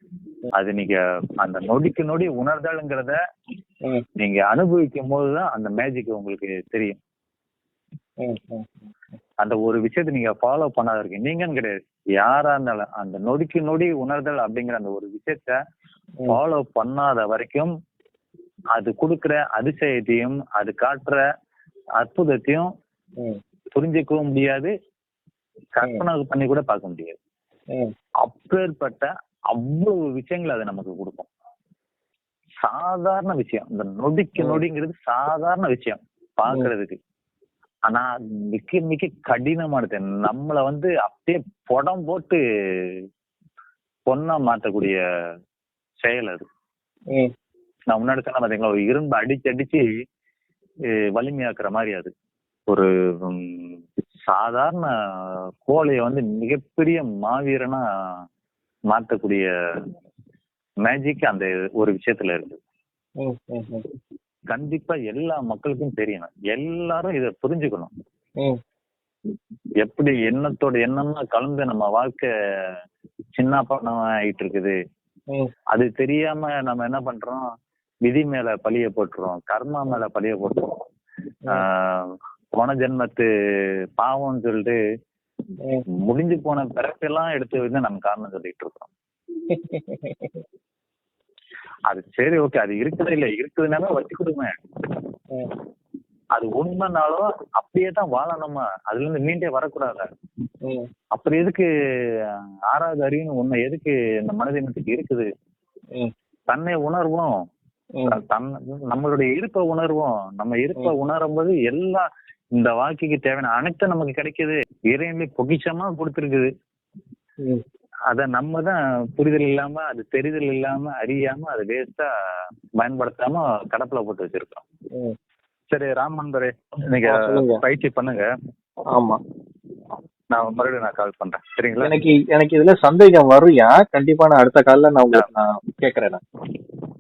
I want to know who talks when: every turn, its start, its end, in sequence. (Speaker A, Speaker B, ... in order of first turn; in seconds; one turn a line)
Speaker A: 0.6-3.2
Speaker A: 4.2-7.0
Speaker B: 8.2-8.9
Speaker A: 9.4-15.6
Speaker A: 16.3-17.7
Speaker A: 18.8-21.2
Speaker A: 22.0-22.7
Speaker A: 23.8-24.7
Speaker A: 25.8-27.2
Speaker A: 28.2-31.3
Speaker A: 32.6-37.0
Speaker A: 37.9-43.0
Speaker A: 44.1-45.0
Speaker A: 46.0-46.5
Speaker A: 47.9-49.9
Speaker A: 51.2-52.1
Speaker A: 52.7-57.8
Speaker A: 58.9-59.9
Speaker A: 60.8-62.6
Speaker B: 63.2-63.9
Speaker A: 64.5-67.9
Speaker A: 69.8-72.7
Speaker A: 73.4-74.8
Speaker A: 75.7-77.4
Speaker A: 78.1-80.8
Speaker A: 81.5-84.8
Speaker A: 86.0-88.9
Speaker B: 89.5-90.4
Speaker A: 91.9-95.0
Speaker A: 96.4-100.1
Speaker A: 101.2-105.3
Speaker A: 106.5-107.4
Speaker A: 108.1-116.5
Speaker A: 118.1-122.1
Speaker A: 122.8-124.6
Speaker A: 125.7-128.3
Speaker B: 127.0-127.6
Speaker B: 128.9-129.2
Speaker A: 130.3-131.9
Speaker B: 131.8-136.2